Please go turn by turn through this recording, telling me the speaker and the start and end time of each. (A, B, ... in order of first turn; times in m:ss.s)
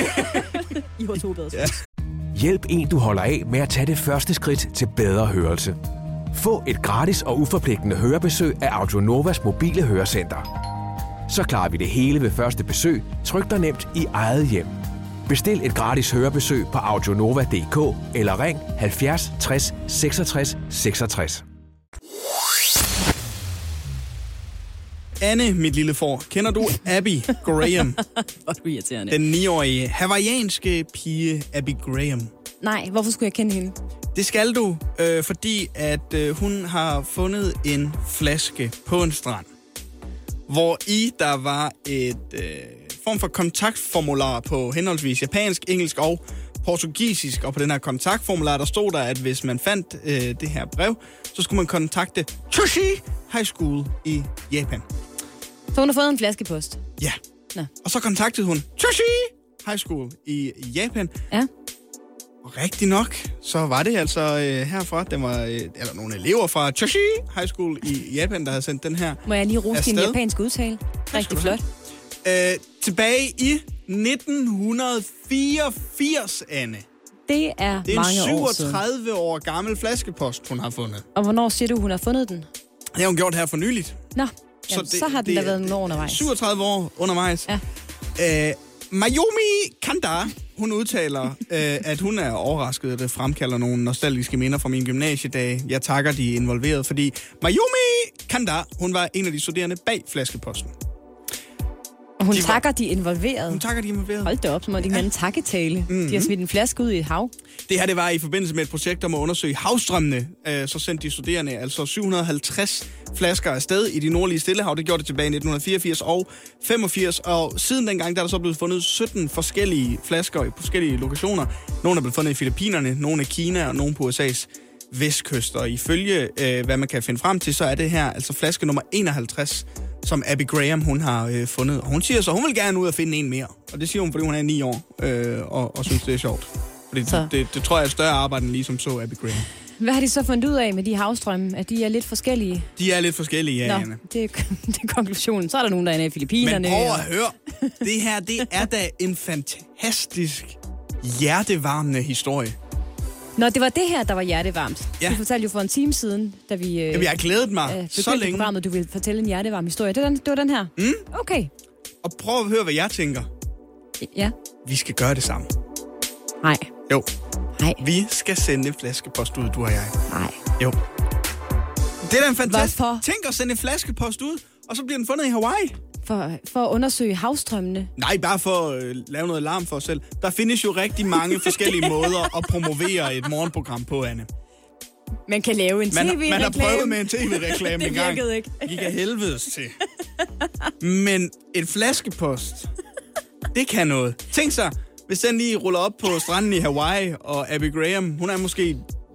0:00.2-0:01.7 A
0:02.3-0:05.8 B
0:06.3-0:10.5 B
0:11.3-0:14.8 B
0:15.3-0:21.4 B
0:25.2-0:28.0 C
0:28.2-0:29.2 A
0:29.1-0:32.3 C
0:32.6-0:33.8 A
0:34.1-0:39.5 C
0:40.5-0:54.9 C
0:55.7-0:56.8 A
0:57.8-1:01.1 C
1:02.4-1:10.2 C
1:09.3-1:11.6 A
1:11.1-1:11.6 C
1:12.2-1:16.9 C
1:17.3-1:18.8 A
1:17.8-1:21.1 C
1:21.2-1:22.5 A
1:22.9-1:24.0 C
1:24.2-1:26.3 A
1:24.7-1:27.5 C
1:28.2-1:40.7 C
1:42.2-1:43.6 A
1:42.3-1:42.6 C
1:43.5-1:45.1 C
1:44.2-1:47.3 A
1:45.9-1:46.3 C
1:47.7-2:19.5 C
2:19.8-2:22.7 A
2:22.8-2:24.0 C
2:23.6-2:27.1 A
2:26.4-2:32.6 C
2:33.4-2:41.5 A
2:36.9-2:38.5 C
2:40.8-2:41.0 C
2:42.0-2:43.3 C
2:44.0-2:44.3 A
2:44.6-2:45.5 C
2:46.4-2:46.7 A
2:47.8-2:50.0 C
2:50.1-2:50.4 A
2:52.0-2:55.8 C
2:52.4-2:53.0 A
2:56.0-2:57.9 A
2:58.0-3:04.3 C
3:01.3-3:02.3 A
3:05.3-3:08.9 A
3:05.9-3:09.8 C
3:10.8-3:12.7 C
3:13.5-3:18.8 C